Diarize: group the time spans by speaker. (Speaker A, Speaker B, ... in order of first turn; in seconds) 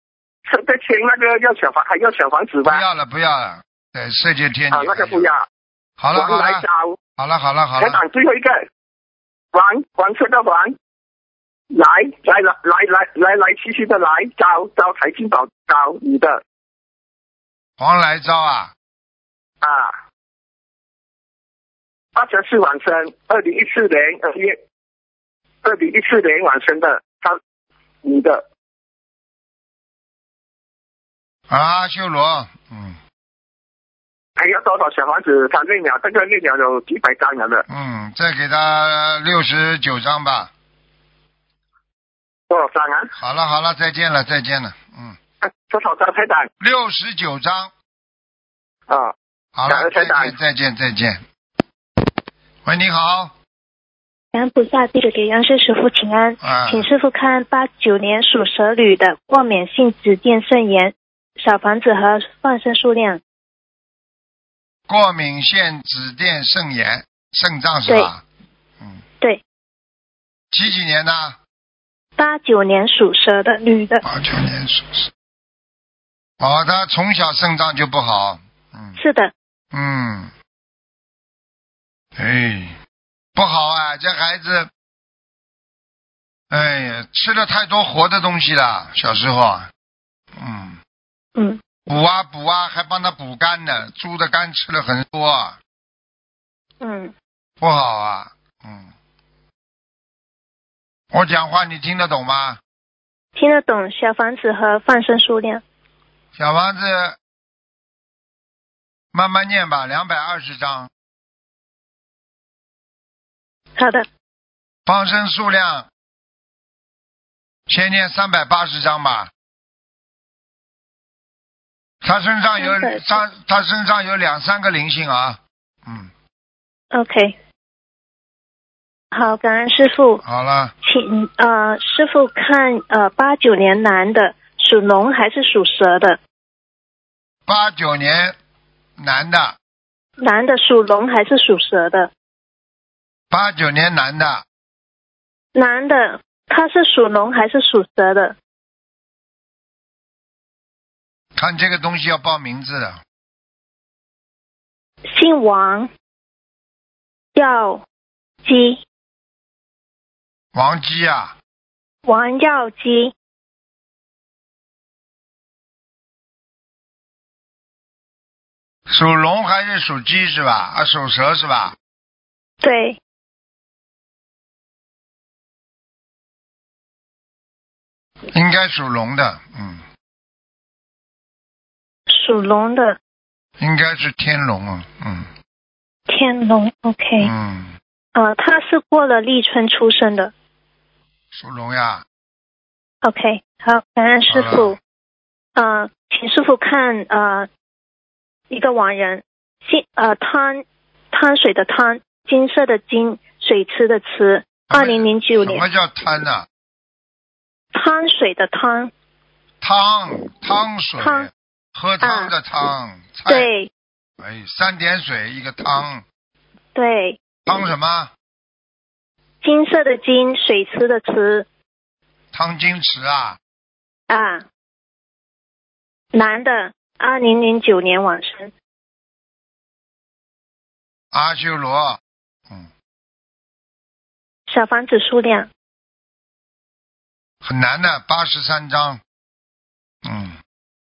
Speaker A: 0.5-2.8, 4.7-5.5, 6.1-7.0, 7.8-8.6, 9.5-10.8, 11.7-16.4, 19.6-19.9, 22.1-24.6, 25.6-27.4, 28.0-28.4, 34.4-37.6, 42.5-43.1, 45.4-46.5, 48.9-49.1, 49.7-50.4
Speaker B: 2.6-5.3, 6.0-6.7, 7.2-8.0, 17.8-18.7, 31.5-33.0, 37.7-40.5, 43.2-45.2, 46.6-47.7, 49.6-51.2, 52.6-53.3, 56.4-56.9, 64.9-68.2, 70.5-71.4, 74.0-75.1, 76.4-79.0, 79.7-80.3, 82.2-82.8, 83.4-84.7, 86.5-89.7, 90.4-90.8, 91.9-95.6, 97.6-98.9, 101.1-102.6, 106.4-107.2, 109.1-110.9, 114.9-115.9, 117.7-119.3, 122.0-126.1, 130.2-130.7, 137.5-138.3, 139.0-139.6, 143.3-144.4, 151.4-153.0, 160.5-161.3, 168.9-171.8, 178.3-179.8, 183.6-185.3, 187.2-187.8, 191.3-192.0, 194.3-194.7, 204.7-206.5, 209.6-213.5, 214.2-216.0, 217.5-218.1, 222.3-223.4, 231.1-232.7, 237.4-239.0, 240.1-240.4
Speaker C: 54.3-63.2, 72.2-74.0, 79.0-79.3, 91.4-91.6, 96.8-97.1, 103.3-105.6, 113.8-114.0, 122.6-123.2, 126.9-127.4, 129.1-130.2, 130.8-136.2, 140.2-142.1, 145.6-148.4, 155.1-155.9, 157.3-157.8, 158.4-158.8, 162.1-163.1, 172.6-173.0, 182.1-183.0, 186.1-187.3, 188.2-190.3, 193.0-194.8, 195.6-197.5, 198.5-205.7, 207.7-208.9, 211.0-211.3, 212.0-212.3, 213.3-213.7, 216.8-217.2, 219.4-221.5, 224.1-224.4, 226.1-228.5, 234.5-235.5